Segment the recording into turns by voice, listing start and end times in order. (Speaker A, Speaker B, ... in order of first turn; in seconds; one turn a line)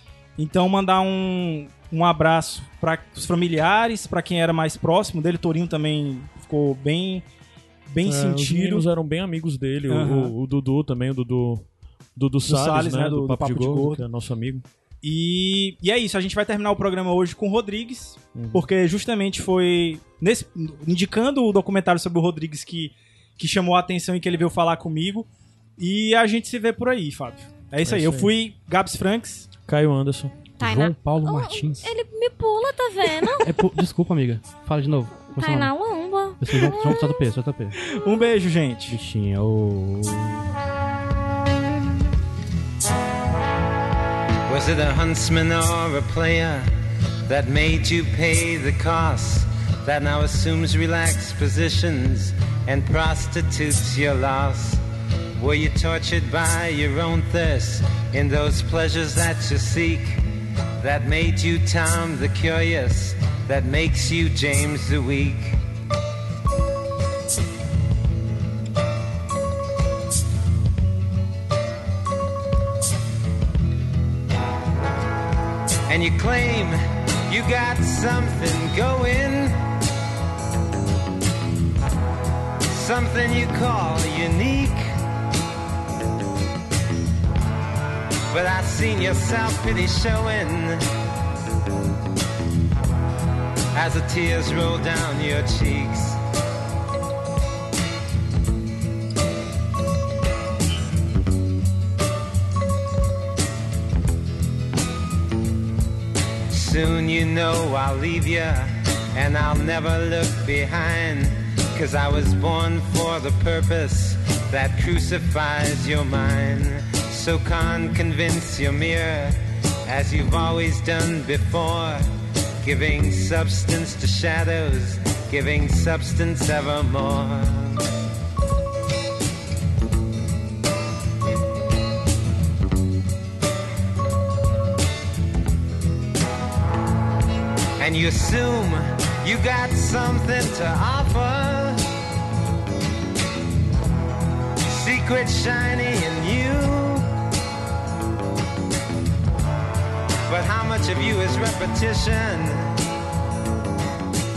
Speaker A: 0.4-7.2
Speaker A: 7.9-8.8
Speaker B: 8.0-14.6
Speaker A: 9.9-10.3
Speaker A: 12.4-14.0
Speaker A: 15.0-29.5
Speaker B: 18.3-18.6
Speaker B: 27.8-28.3
Speaker B: 29.7-30.3
Speaker C: 30.6-31.9
Speaker D: 30.6-33.6
Speaker C: 33.4-35.7
Speaker D: 35.3-37.0
Speaker C: 36.4-37.8
Speaker A: 37.8-39.0
Speaker C: 38.9-40.4
Speaker E: 44.5-46.7
Speaker E: 47.2-54.8
Speaker E: 55.4-60.2
Speaker E: 60.8-65.6
Speaker E: 75.9-79.6
Speaker E: 82.7-84.9
Speaker E: 88.3-90.8
Speaker E: 93.7-96.2
Speaker E: 106.5-122.0
Speaker E: 122.6-127.9
Speaker E: 137.8-141.8
Speaker E: 144.6-147.1
Speaker E: 150.3-152.8